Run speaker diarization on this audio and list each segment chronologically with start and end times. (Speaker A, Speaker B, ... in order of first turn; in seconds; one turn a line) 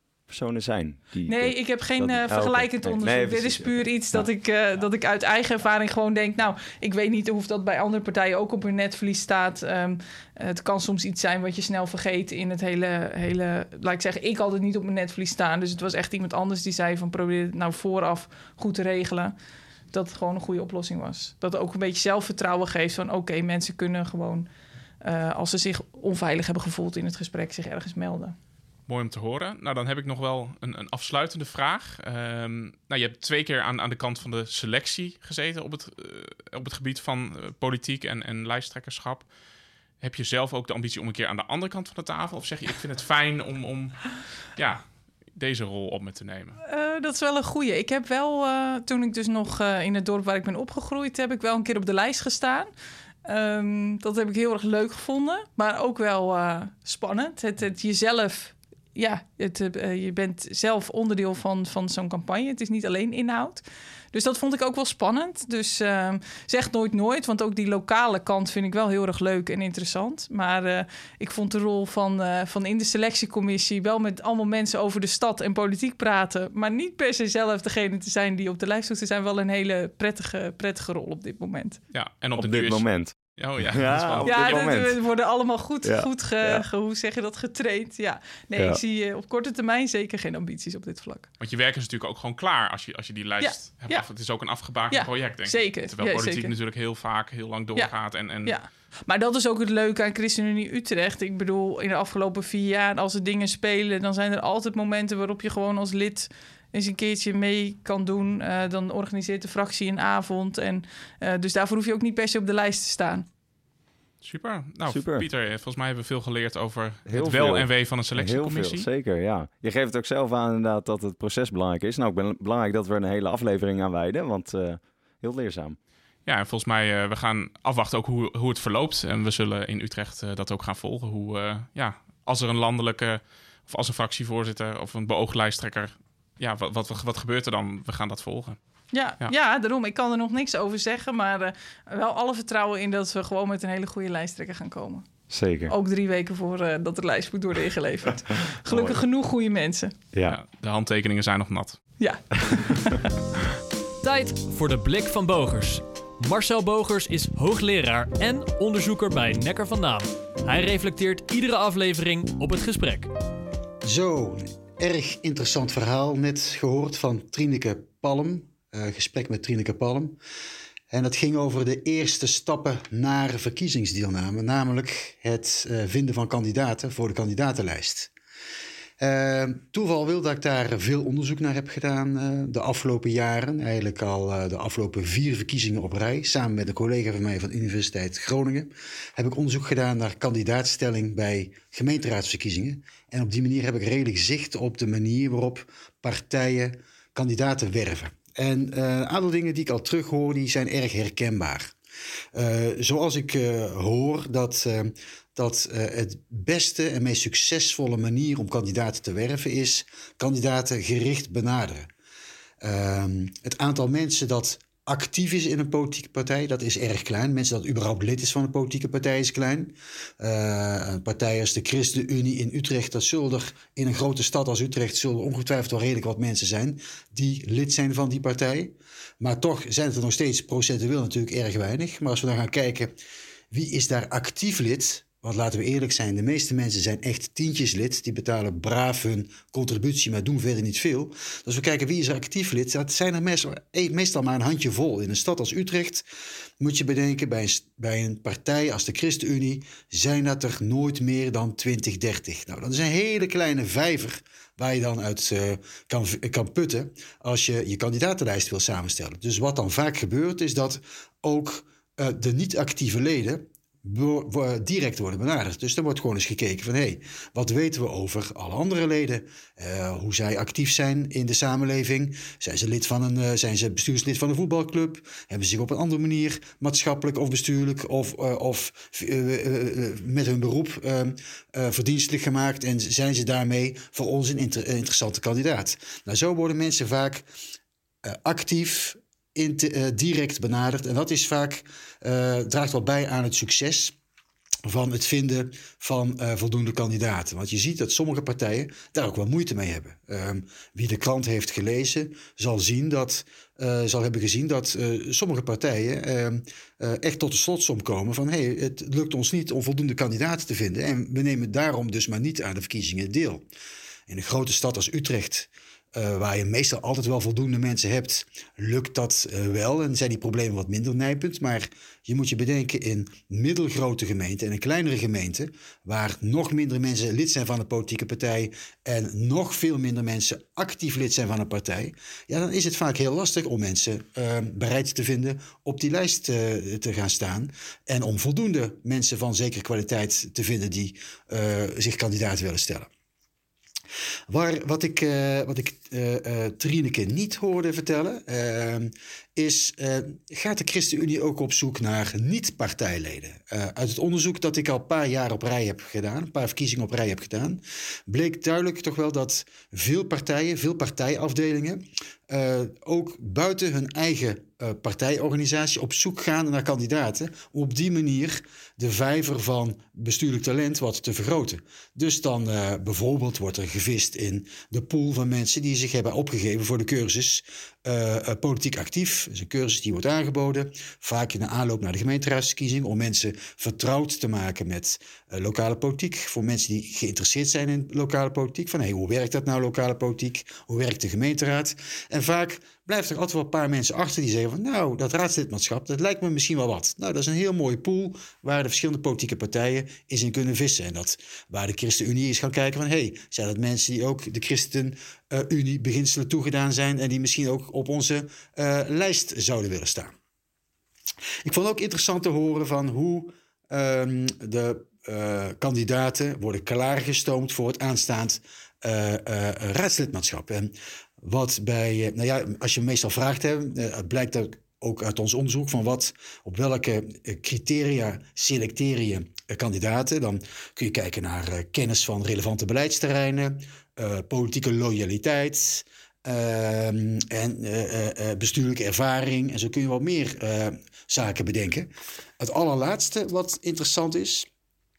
Speaker A: 0.3-4.2
Speaker B: 1.2-19.3
Speaker B: 19.9-24.5
Speaker B: 25.0-28.3
Speaker C: 28.9-39.3
Speaker C: 40.0-44.8
Speaker C: 45.3-46.6
Speaker B: 46.6-52.7
Speaker B: 53.2-81.8
Speaker C: 81.9-84.7
Speaker A: 82.4-83.1
Speaker A: 83.7-85.0
Speaker B: 84.2-91.3
Speaker A: 85.8-86.6
Speaker A: 88.5-88.8
Speaker C: 91.4-98.5
Speaker B: 93.4-94.0
Speaker B: 94.9-96.5
Speaker B: 98.4-113.3
Speaker C: 114.2-118.9
Speaker A: 114.9-115.3
Speaker A: 117.1-125.8
Speaker C: 126.2-138.6
Speaker B: 138.9-145.1
Speaker A: 145.3-145.7
Speaker B: 145.7-149.9
Speaker A: 148.7-148.9
Speaker A: 150.1-150.4
Speaker C: 150.3-151.8
Speaker B: 152.0-153.1
Speaker D: 154.0-163.1
Speaker E: 163.8-170.2
Speaker E: 170.9-178.1
Speaker E: 179.0-201.7
Speaker E: 202.3-211.9
Speaker E: 212.6-232.9
Speaker E: 233.5-246.0
Speaker E: 246.6-287.2
Speaker E: 288.1-293.9
Speaker E: 294.6-313.4
Speaker E: 314.1-342.9
Speaker E: 344.3-410.1
Speaker E: 411.4-444.5